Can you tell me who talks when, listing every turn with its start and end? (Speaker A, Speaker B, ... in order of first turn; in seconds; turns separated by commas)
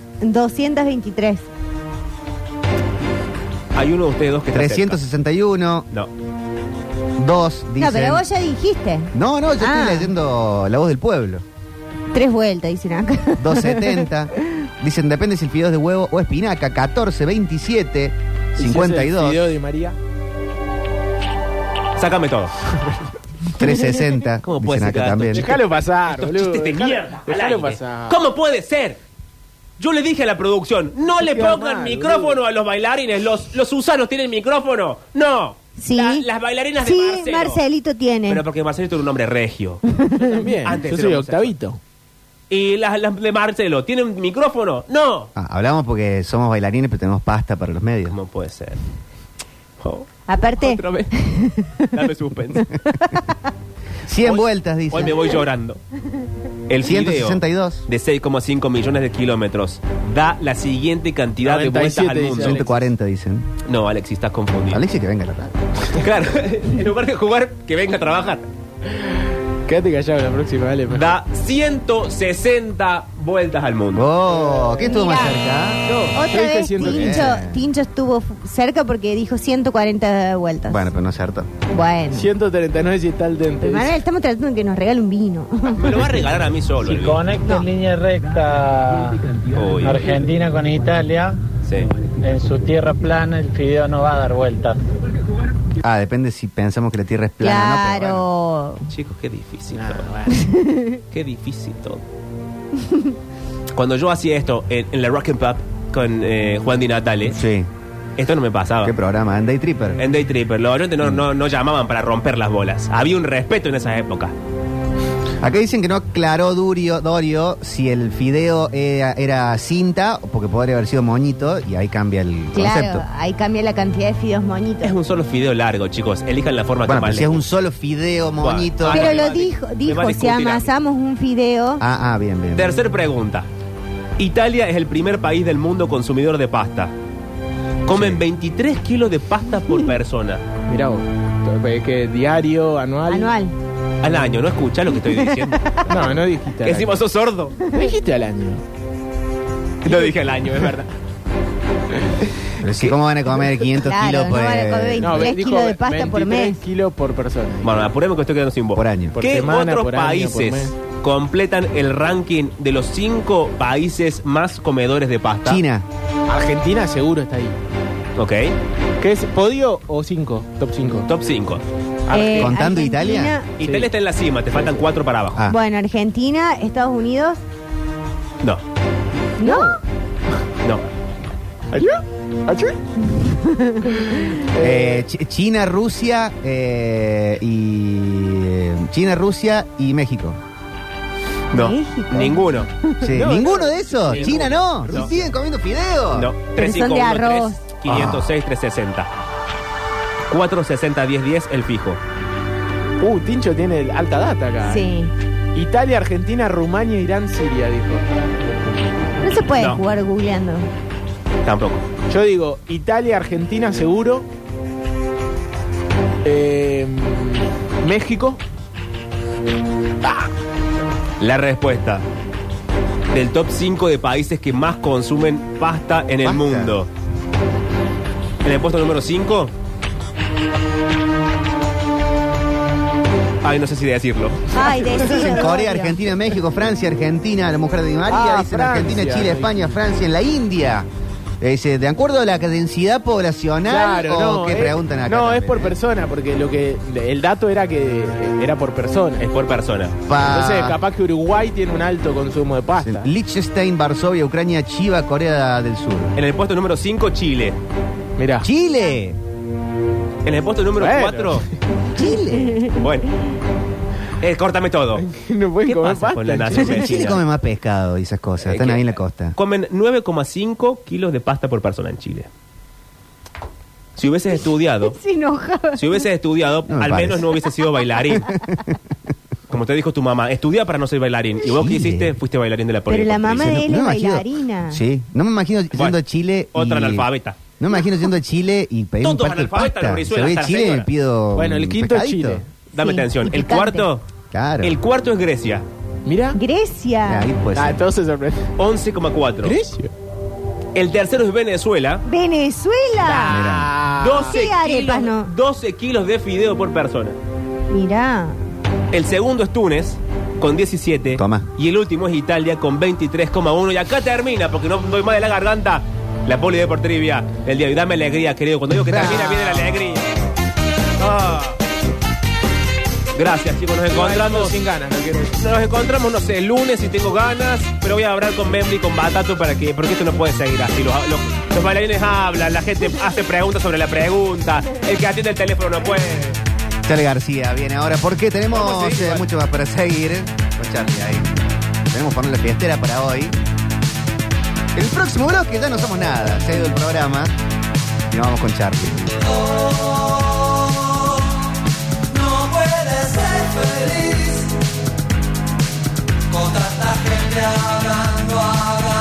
Speaker A: 0.2-1.4, Speaker B: 3.7-5.0, Speaker C: 4.5-5.9, Speaker C: 7.2-8.2, Speaker A: 7.8-10.1, Speaker C: 9.1-11.4, Speaker A: 12.1-14.1, Speaker C: 13.4-19.5, Speaker D: 18.6-19.9, Speaker B: 22.0-22.5, Speaker C: 23.6-25.4, Speaker B: 24.4-29.0, Speaker D: 25.3-28.2, Speaker B: 29.8-37.6, Speaker D: 31.2-32.4, Speaker A: 35.8-36.2, Speaker A: 36.8-38.4, Speaker B: 38.3-39.8, Speaker A: 39.9-40.5, Speaker D: 40.1-41.8, Speaker B: 40.6-41.5, Speaker B: 42.5-45.3, Speaker C: 45.4-48.1, Speaker B: 48.1-48.8, Speaker B: 49.8-51.1, Speaker A: 50.3-53.4, Speaker B: 51.9-52.7, Speaker C: 54.0-55.2, Speaker B: 54.2-55.8, Speaker B: 56.7-62.7, Speaker C: 56.8-57.8, Speaker D: 61.4-62.6, Speaker C: 62.4-63.5, Speaker B: 63.6-64.8, Speaker C: 64.7-65.6, Speaker B: 65.9-68.5, Speaker D: 68.9-71.2, Speaker B: 70.9-74.1, Speaker C: 73.9-76.1, Speaker D: 74.3-74.8, Speaker A: 74.8-75.4, Speaker D: 75.8-77.3, Speaker A: 76.1-80.9, Speaker C: 76.7-77.6, Speaker C: 80.7-81.5, Speaker A: 81.7-82.3, Speaker D: 82.1-84.0, Speaker A: 83.6-86.1, Speaker B: 85.7-87.3, Speaker E: 86.8-91.5, Speaker B: 89.5-90.1, Speaker B: 91.6-91.9, Speaker E: 92.1-94.8, Speaker C: 95.8-98.2, Speaker A: 97.4-98.9, Speaker B: 98.9-100.1, Speaker D: 99.7-100.4, Speaker A: 100.3-101.0, Speaker B: 101.1-102.0, Speaker B: 103.8-107.4, Speaker C: 107.3-107.7, Speaker B: 108.2-109.0, Speaker C: 108.8-110.0, Speaker B: 110.0-114.3, Speaker C: 115.4-123.0, Speaker A: 122.5-124.9, Speaker B: 124.8-127.4, Speaker C: 126.8-129.2, Speaker B: 128.4-130.7, Speaker A: 128.8-131.8, Speaker C: 131.8-132.8, Speaker B: 132.6-133.5, Speaker B: 134.2-136.9, Speaker B: 137.8-140.4, Speaker C: 137.9-138.2, Speaker D: 140.7-143.3, Speaker A: 143.1-143.5, Speaker B: 144.0-145.7, Speaker A: 145.2-145.8, Speaker D: 145.8-147.0, Speaker B: 146.6-147.6, Speaker D: 147.7-148.6, Speaker B: 149.8-150.9, Speaker C: 152.6-155.3, Speaker A: 153.7-156.6, Speaker D: 155.0-157.8, Speaker B: 157.6-165.6, Speaker C: 158.7-159.2, Speaker D: 159.1-160.7, Speaker C: 165.4-165.9, Speaker D: 166.3-167.6, Speaker B: 168.2-168.6, Speaker D: 169.0-171.1, Speaker B: 171.1-171.6, Speaker A: 172.1-173.5, Speaker B: 172.2-172.5, Speaker C: 172.3-173.3, Speaker B: 173.6-175.5, Speaker D: 173.6-173.9, Speaker D: 174.5-174.8, Speaker A: 175.5-177.4, Speaker A: 179.4-179.8, Speaker D: 179.4-179.8, Speaker D: 181.7-182.8, Speaker A: 183.1-184.1, Speaker D: 183.9-185.0, Speaker C: 184.6-190.4, Speaker B: 191.5-192.7, Speaker A: 191.5-193.1, Speaker C: 193.0-196.3, Speaker D: 193.1-195.2, Speaker B: 194.0-195.1, Speaker B: 196.1-199.1, Speaker A: 196.6-197.6, Speaker C: 197.9-198.3, Speaker B: 200.3-202.0, Speaker D: 203.0-204.9, Speaker A: 204.6-205.1, Speaker D: 205.5-208.0, Speaker A: 209.2-210.7, Speaker B: 209.6-209.8, Speaker B: 211.4-211.9, Speaker D: 212.1-214.3, Speaker D: 216.2-218.4, Speaker B: 221.2-222.0, Speaker B: 223.1-226.9, Speaker C: 226.2-226.7, Speaker B: 228.4-229.5, Speaker B: 233.4-235.0, Speaker A: 234.5-236.0, Speaker C: 235.1-240.9, Speaker D: 238.1-239.8, Speaker C: 241.4-245.8, Speaker D: 243.7-249.3, Speaker B: 249.2-250.0, Speaker C: 250.1-250.8, Speaker D: 250.2-253.1, Speaker C: 252.8-256.1, Speaker B: 256.1-257.6, Speaker D: 258.2-258.5, Speaker C: 258.4-259.2, Speaker B: 260.2-261.4, Speaker D: 260.8-261.5, Speaker C: 261.9-262.6, Speaker A: 261.9-262.8, Speaker B: 262.7-263.1, Speaker B: 264.2-265.1, Speaker D: 265.0-266.9, Speaker B: 265.6-267.2, Speaker C: 266.5-269.3, Speaker B: 268.4-272.3, Speaker B: 274.0-275.0, Speaker A: 274.8-276.1, Speaker B: 275.7-278.3, Speaker C: 276.7-277.3, Speaker C: 278.1-278.8, Speaker B: 279.5-283.6, Speaker C: 281.4-282.1, Speaker A: 282.9-284.8, Speaker C: 283.4-287.1, Speaker B: 285.7-286.0, Speaker B: 286.5-287.4, Speaker C: 287.6-292.4, Speaker B: 289.0-290.9, Speaker D: 291.3-292.5, Speaker A: 292.7-293.9, Speaker B: 292.7-294.0, Speaker C: 294.3-294.8, Speaker B: 294.6-295.6, Speaker D: 296.1-296.4, Speaker A: 296.4-297.3, Speaker C: 297.0-297.8, Speaker D: 297.5-298.5, Speaker B: 298.6-299.6, Speaker D: 299.4-299.9, Speaker B: 300.7-302.0, Speaker A: 302.1-303.4, Speaker D: 303.1-304.4, Speaker C: 303.3-303.7, Speaker B: 304.0-307.2, Speaker A: 304.2-305.3, Speaker A: 307.7-308.4, Speaker B: 308.9-320.1, Speaker C: 311.1-311.5, Speaker C: 318.8-320.3, Speaker B: 321.0-321.6, Speaker B: 323.1-324.6, Speaker D: 323.9-325.4, Speaker B: 325.4-336.4, Speaker C: 336.9-343.4, Speaker B: 338.5-339.2, Speaker C: 344.7-347.4, Speaker C: 348.1-349.1, Speaker F: 352.3-354.2, Speaker F: 356.4-358.7